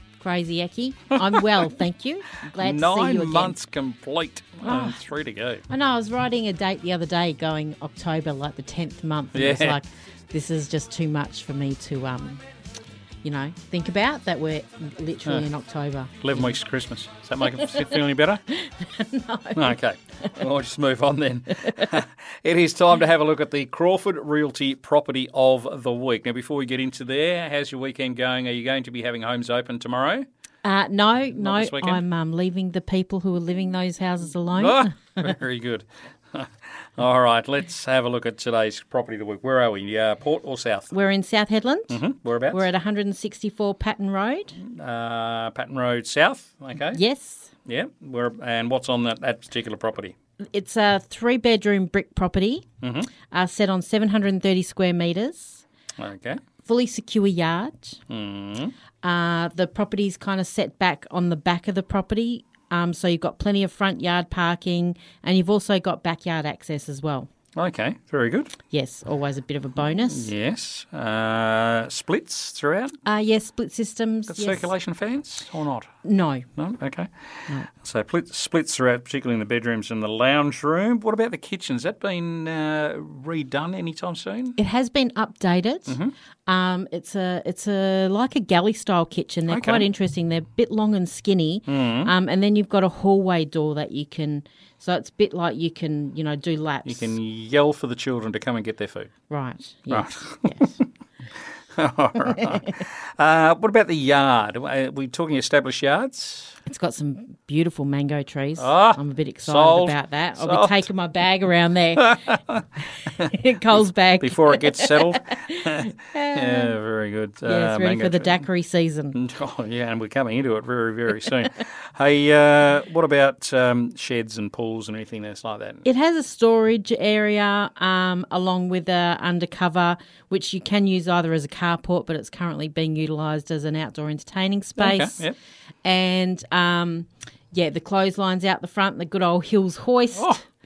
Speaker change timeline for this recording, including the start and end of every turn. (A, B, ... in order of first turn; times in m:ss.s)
0:00.2-0:03.6 A
0:02.6-0:05.6 B
0:04.6-0:05.0 A
0:05.7-0:12.4 A
0:09.3-0:09.8 B
0:13.2-0:16.5 A
0:16.2-0:18.4 B
0:17.6-0:19.8 A
0:19.5-0:30.2 B
0:30.6-0:35.2 A
0:31.4-0:32.0 B
0:34.5-0:40.9 B
0:40.9-0:42.0 A
0:41.9-0:42.7 B
0:42.5-0:44.6 A
0:44.6-0:47.0 B
0:46.8-0:47.5 A
0:47.6-0:50.1 B
0:50.5-0:52.6 A
0:52.8-0:53.1 B
0:53.3-0:55.6 A
0:56.0-0:56.4 B
0:56.6-0:58.0 A
0:58.1-0:58.7 B
0:59.0-1:07.3 A
1:07.5-1:08.6 B
1:08.7-1:10.3 A
1:10.0-1:13.0 B
1:13.0-1:14.7 A
1:14.3-1:15.9 B
1:16.0-1:16.5 A
1:16.5-1:24.6 B
1:24.6-1:37.1 A
1:25.9-1:26.1 B
1:29.5-1:29.8 B
1:31.7-1:32.1 B
1:36.8-1:39.1 B
1:39.3-1:40.7 A
1:39.9-1:40.8 B
1:41.7-1:46.6 B
1:46.6-1:52.4 A
1:48.6-1:50.9 B
1:52.0-1:52.6 B
1:53.1-1:56.7 A
1:54.2-1:58.4 B
1:57.4-1:59.2 A
1:59.1-2:05.8 B
2:05.8-2:15.2 A
2:14.8-2:15.4 B
2:15.8-2:20.4 A